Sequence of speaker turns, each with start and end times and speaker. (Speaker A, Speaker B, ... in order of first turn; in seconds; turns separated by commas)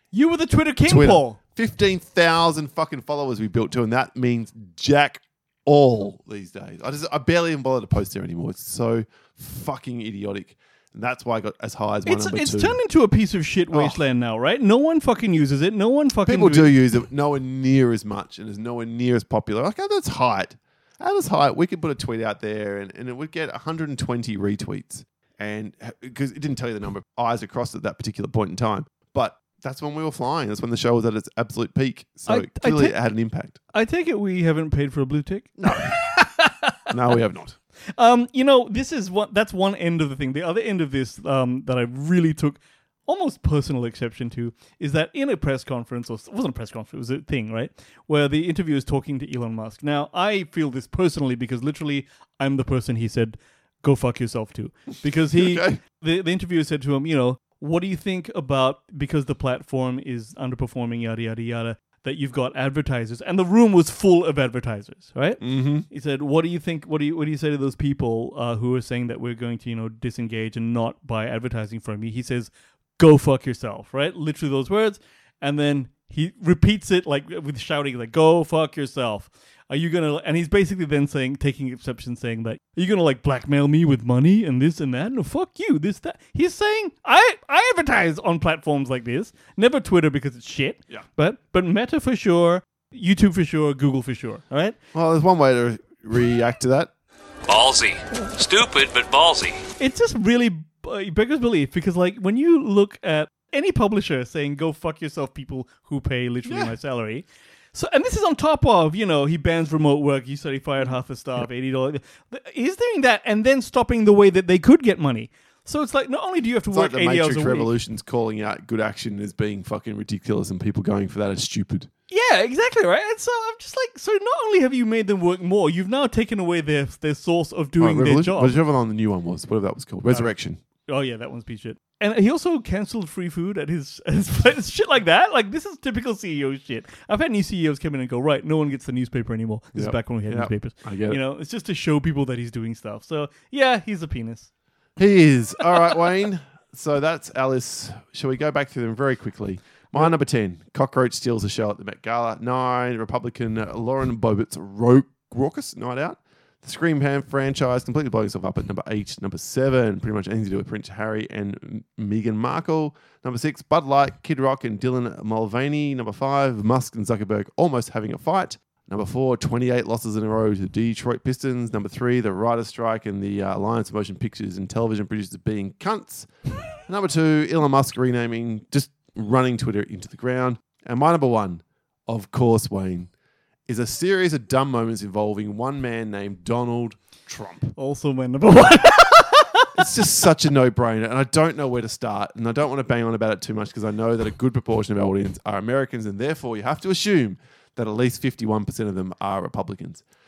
Speaker A: 0.1-1.4, Speaker B: 0.8-12.8, Speaker A: 12.1-16.7, Speaker B: 13.7-14.0, Speaker B: 16.2-33.6, Speaker A: 32.3-32.9, Speaker A: 33.7-36.9, Speaker B: 35.6-36.0, Speaker B: 36.9-37.6, Speaker A: 38.0-94.8, Speaker B: 55.3-55.8, Speaker B: 65.4-65.9, Speaker B: 94.9-96.9, Speaker C: 97.5-99.6, Speaker A: 99.8-117.7, Speaker B: 106.4-106.7, Speaker B: 110.8-111.4, Speaker B: 116.7-121.9, Speaker A: 122.1-128.6, Speaker B: 127.8-130.6, Speaker A: 130.9-144.5, Speaker B: 139.7-141.2, Speaker B: 145.0-183.1, Speaker B: 183.7-187.7, Speaker A: 187.8-189.8, Speaker B: 189.8-200.0